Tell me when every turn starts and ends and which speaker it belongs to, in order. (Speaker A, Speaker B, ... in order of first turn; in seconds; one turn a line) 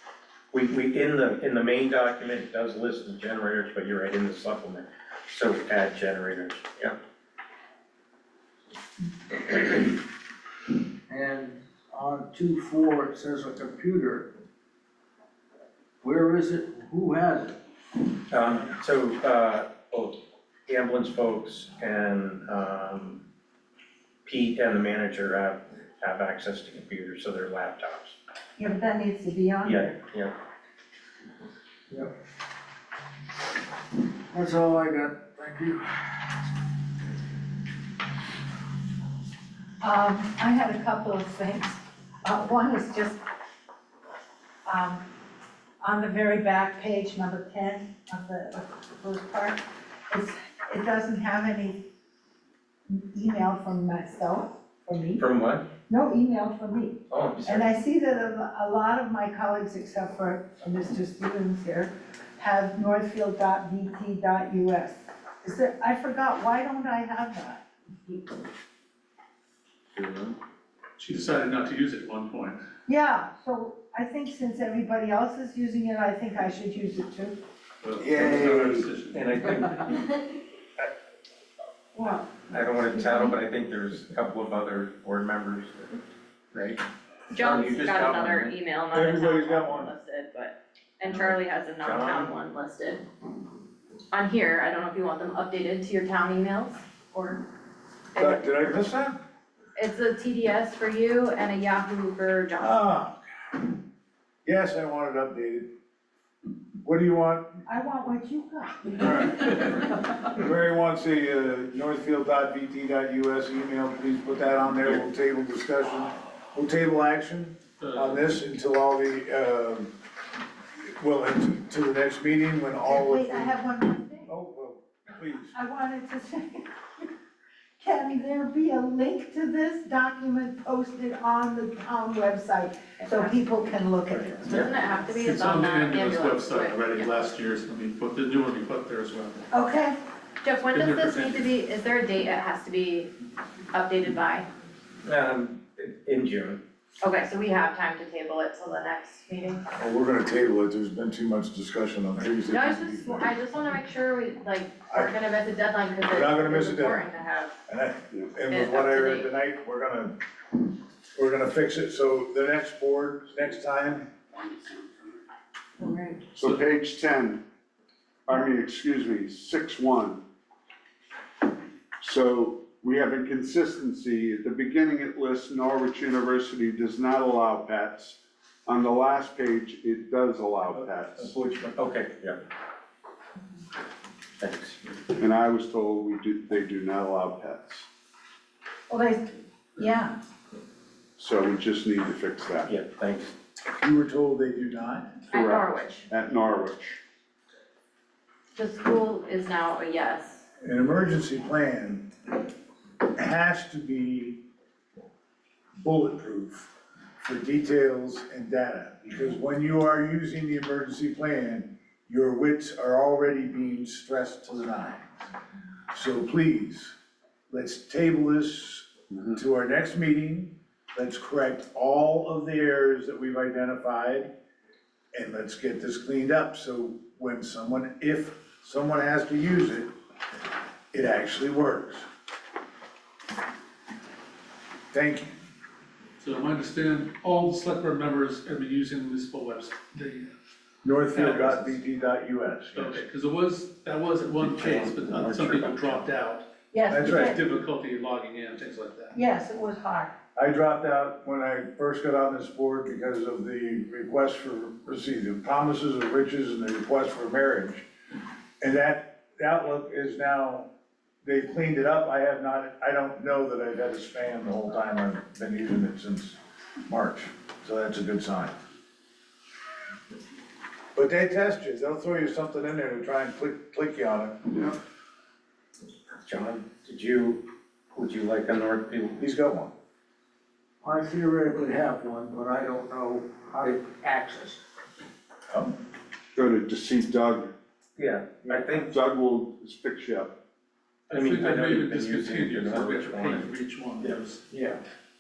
Speaker A: 0.5-7.0
Speaker B: 11.1-14.3
Speaker B: 16.0-17.6
Speaker A: 18.3-23.2
Speaker A: 24.2-28.2
Speaker C: 28.6-30.0
Speaker A: 29.6-30.3
Speaker B: 34.3-35.8
Speaker C: 39.8-43.2
Speaker C: 44.7-45.0
Speaker C: 45.8-51.8
Speaker C: 52.9-55.2
Speaker A: 55.2-55.7
Speaker C: 55.9-68.4
Speaker A: 57.1-57.7
Speaker D: 71.0-72.6
Speaker C: 72.9-77.4
Speaker D: 77.8-79.8
Speaker E: 78.0-78.9
Speaker A: 79.1-80.0
Speaker C: 82.0-83.4
Speaker A: 82.5-86.0
Speaker A: 86.5-86.8
Speaker F: 87.3-93.0
Speaker A: 87.4-88.5
Speaker E: 88.9-89.9
Speaker A: 91.8-92.3
Speaker F: 94.1-97.4
Speaker F: 98.2-98.4
Speaker E: 98.2-99.2
Speaker F: 99.8-102.8
Speaker E: 102.6-103.2
Speaker E: 104.5-105.7
Speaker E: 106.8-107.6
Speaker C: 107.7-109.5
Speaker E: 109.0-119.9
Speaker D: 117.8-118.2
Speaker E: 120.9-123.6
Speaker C: 122.9-124.3
Speaker E: 124.3-125.5
Speaker C: 125.5-127.1
Speaker C: 127.8-135.1
Speaker F: 133.0-133.4
Speaker A: 134.5-134.7
Speaker F: 134.5-137.1
Speaker D: 135.2-139.4
Speaker C: 139.5-140.0
Speaker F: 140.4-143.1
Speaker D: 140.7-141.5
Speaker F: 143.7-144.5
Speaker A: 145.0-146.6
Speaker F: 147.0-149.6
Speaker E: 149.8-153.3
Speaker F: 152.5-157.6
Speaker E: 154.9-155.2
Speaker E: 156.1-157.1
Speaker E: 157.7-160.2
Speaker F: 158.5-159.3
Speaker E: 161.2-164.1
Speaker G: 164.3-165.0
Speaker F: 165.8-166.3
Speaker D: 166.4-166.6
Speaker G: 166.4-167.4
Speaker G: 168.3-170.2
Speaker G: 172.0-181.3
Speaker A: 181.2-182.4
Speaker A: 184.4-184.8
Speaker G: 185.2-187.9
Speaker C: 188.9-190.2
Speaker G: 191.2-192.7
Speaker A: 192.7-193.3
Speaker E: 193.8-195.1
Speaker F: 195.3-196.1
Speaker G: 195.3-197.0
Speaker F: 198.6-200.4
Speaker E: 200.6-202.1
Speaker E: 203.2-204.4
Speaker E: 205.8-206.7
Speaker E: 207.2-215.1
Speaker E: 215.9-216.9
Speaker E: 217.5-224.3
Speaker E: 225.1-229.9
Speaker E: 230.9-232.1
Speaker E: 234.9-235.3
Speaker D: 236.2-240.3
Speaker E: 240.8-243.0
Speaker D: 241.1-241.8
Speaker D: 242.7-249.2
Speaker A: 244.5-245.9
Speaker C: 246.7-247.4
Speaker E: 246.9-247.4
Speaker C: 249.1-250.1
Speaker E: 250.4-257.9
Speaker E: 258.6-260.7
Speaker E: 261.2-268.6
Speaker E: 270.9-274.6
Speaker A: 276.2-279.2
Speaker E: 279.2-279.7
Speaker B: 280.8-284.6
Speaker E: 285.5-285.8
Speaker G: 286.4-287.5
Speaker A: 288.0-288.9
Speaker G: 288.5-290.3
Speaker D: 291.1-294.4
Speaker A: 291.1-294.8